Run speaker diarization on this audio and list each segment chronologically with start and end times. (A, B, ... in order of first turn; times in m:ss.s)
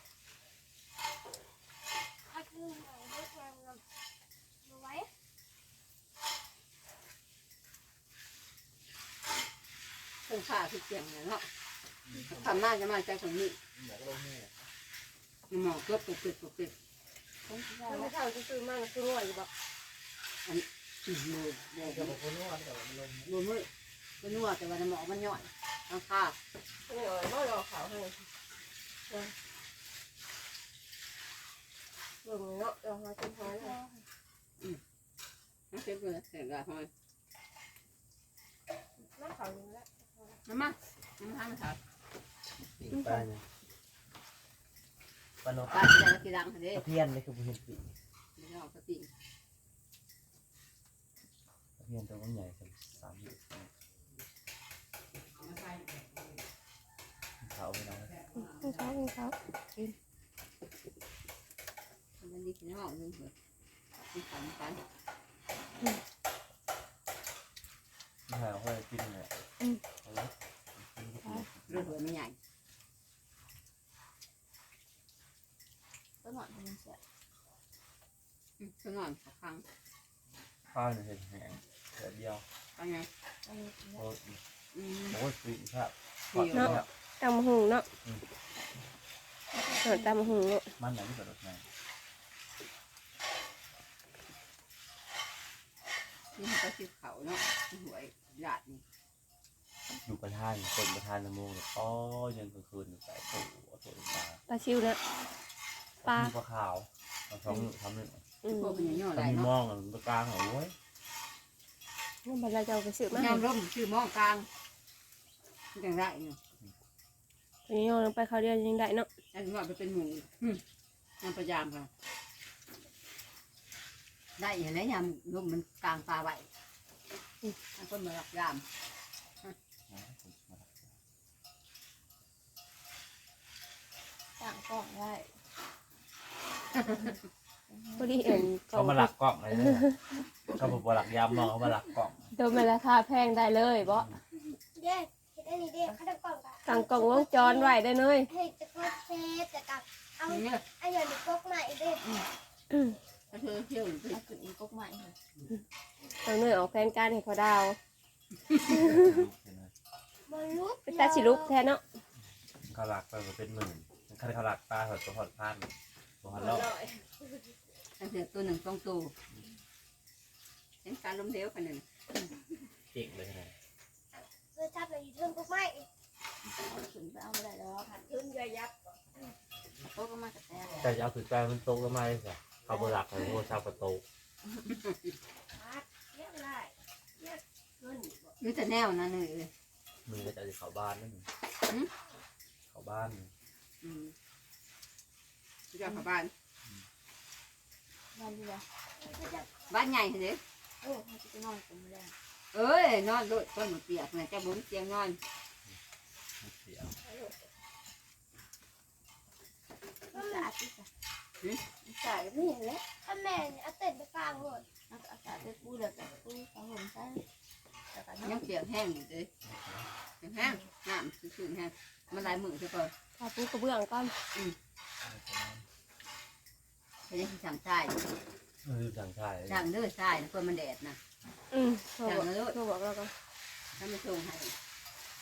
0:02.3-0:03.8 A
0:04.6-0:05.1 A
0:10.2-0:11.5 B
0:12.1-0:12.4 C
0:12.2-0:13.6 B
0:13.8-0:14.6 C
0:15.5-0:16.7 B
0:17.5-0:18.1 B
0:17.8-0:19.5 D
0:20.4-0:22.3 B
0:23.2-0:23.7 B
0:24.2-0:26.4 B
0:26.8-0:28.2 D
0:32.2-0:33.8 D
0:33.4-0:34.0 E
0:35.7-0:36.9 B
0:39.2-0:40.3 D
0:40.4-0:41.8 B
0:42.8-0:43.4 C
0:42.9-0:43.2 D
0:45.4-0:46.0 C
0:45.7-0:46.8 B
0:46.7-0:47.9 C
0:48.4-0:49.1 B
0:51.8-0:53.7 C
0:57.4-0:58.2 C
0:58.3-0:59.9 D
1:02.2-1:03.3 B
1:04.0-1:04.8 B
1:08.3-1:09.4 C
1:10.0-1:12.0 C
1:11.7-1:12.4 B
1:16.2-1:17.0 E
1:18.6-1:19.6 B
1:20.7-1:22.4 C
1:22.8-1:23.1 B
1:23.4-1:24.0 E
1:24.0-1:24.4 C
1:24.7-1:25.2 B
1:25.1-1:26.9 C
1:26.3-1:26.9 B
1:26.5-1:27.8 D
1:29.5-1:30.1 E
1:29.7-1:30.7 D
1:30.8-1:31.6 C
1:36.4-1:38.8 B
1:40.0-1:44.4 C
1:44.5-1:45.0 D
1:46.0-1:46.3 D
1:46.0-1:48.2 C
1:48.4-1:48.8 D
1:48.4-1:49.5 B
1:49.1-1:50.7 C
1:52.2-1:53.4 D
1:53.1-1:54.5 B
1:55.7-1:56.4 B
1:57.7-1:59.1 D
1:59.3-2:00.6 B
2:01.2-2:01.9 B
2:04.4-2:06.4 B
2:07.7-2:08.6 B
2:09.9-2:10.9 C
2:14.4-2:15.3 E
2:17.7-2:18.1 E
2:18.0-2:20.0 D
2:18.7-2:19.9 C
2:20.5-2:22.3 C
2:22.3-2:24.1 D
2:24.7-2:27.8 A
2:26.6-2:28.3 D
2:28.3-2:32.0 A
2:30.3-2:30.6 B
2:33.3-2:34.2 B
2:34.1-2:35.2 E
2:36.2-2:37.8 D
2:38.7-2:39.1 D
2:38.7-2:39.7 C
2:40.3-2:41.6 A
2:40.9-2:41.8 D
2:42.7-2:46.7 C
2:46.3-2:47.2 E
2:48.0-2:49.1 B
2:50.8-2:51.8 B
2:52.9-2:53.5 C
2:54.2-2:55.9 A
2:56.4-2:58.7 E
2:59.9-3:00.8 B
3:00.8-3:04.0 C
3:05.6-3:08.2 E
3:08.4-3:09.5 B
3:10.0-3:11.3 C
3:12.7-3:13.3 C
3:13.8-3:14.1 B
3:15.7-3:16.3 B
3:18.1-3:18.6 E
3:19.0-3:19.6 A
3:19.7-3:20.4 B
3:20.8-3:22.1 E
3:22.5-3:25.2 B
3:26.4-3:27.0 C
3:27.0-3:27.3 E
3:30.1-3:30.5 A
3:30.1-3:30.9 E
3:31.8-3:32.8 E
3:33.0-3:34.6 A
3:34.9-3:37.2 E
3:37.9-3:38.4 E
3:38.2-3:39.3 B
3:39.4-3:39.8 C
3:40.2-3:42.9 B
3:43.2-3:44.1 D
3:45.0-3:45.6 C
3:47.1-3:48.0 B
3:48.6-3:49.7 C
3:49.5-3:51.0 B
3:51.5-3:53.1 D
3:52.0-3:52.6 B
3:53.8-3:54.5 B